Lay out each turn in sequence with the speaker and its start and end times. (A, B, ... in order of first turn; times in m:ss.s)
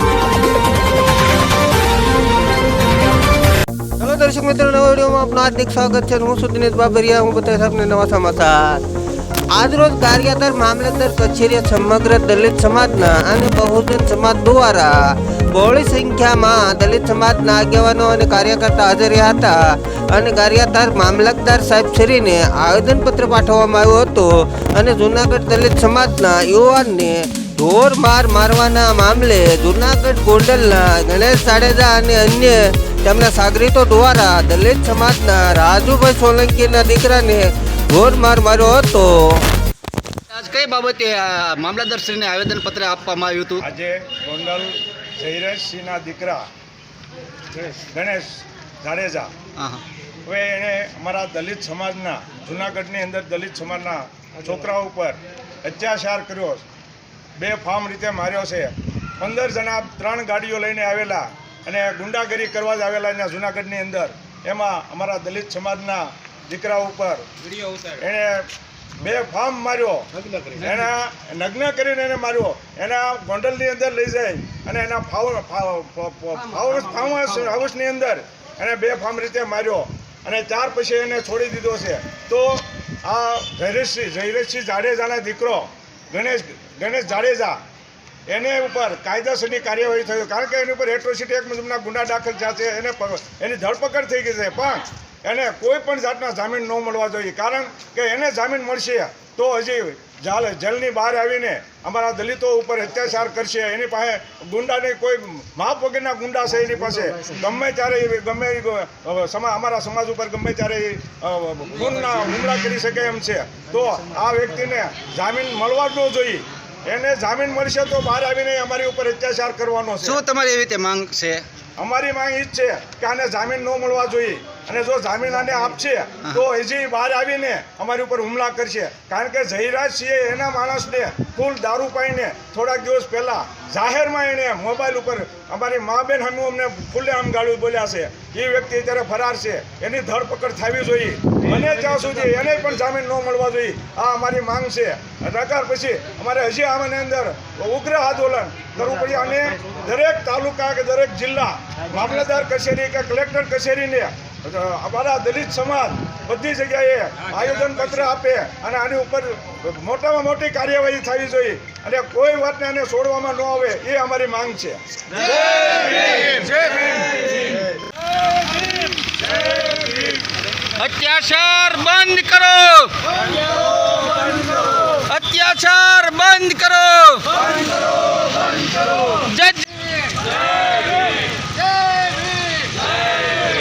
0:04.0-0:08.8 A
0:09.5-0:39.4 A
0:40.3-0:43.6 B
0:43.6-0:46.5 C
0:47.8-0:49.3 C
0:49.6-0:49.8 B
0:50.2-0:56.6 C
0:57.4-1:07.3 C
1:07.9-1:27.6 C
1:16.6-1:17.5 B
1:28.3-2:00.2 C
2:00.0-2:01.4 B
2:01.8-2:44.8 C
2:45.7-2:47.5 B
2:50.8-2:53.1 B
2:54.9-2:57.5 B
2:59.0-3:00.2 B
3:01.7-3:02.7 B